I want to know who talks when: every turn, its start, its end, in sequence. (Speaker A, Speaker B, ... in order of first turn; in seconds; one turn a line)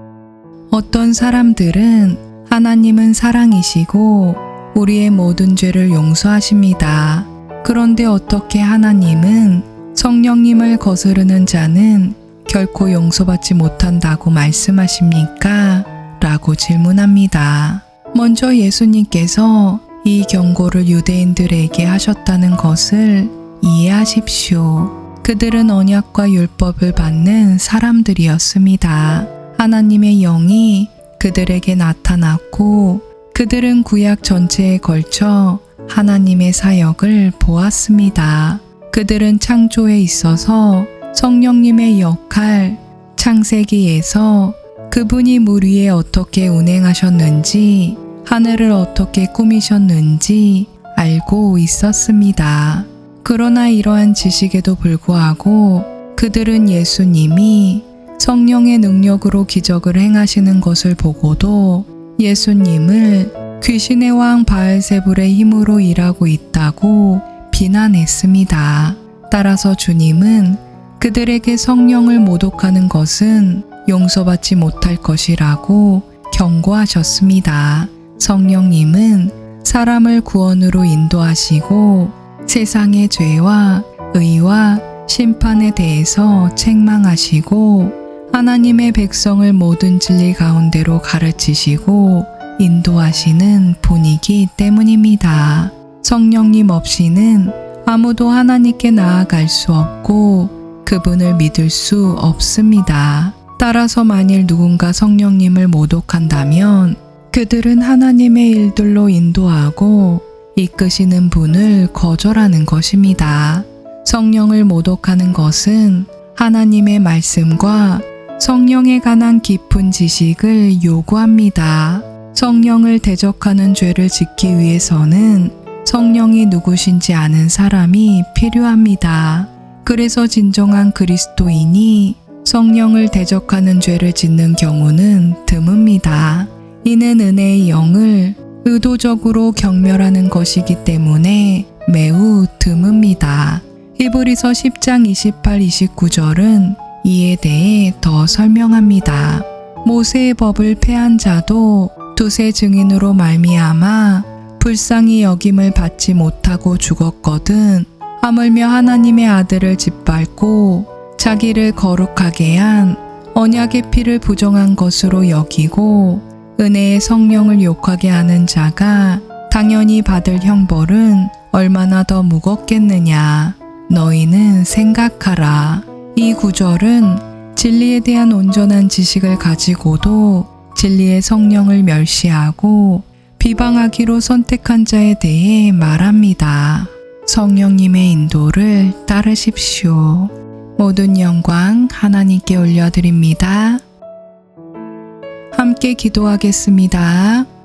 Speaker A: 0.7-193.8
Speaker A: 195.5-197.5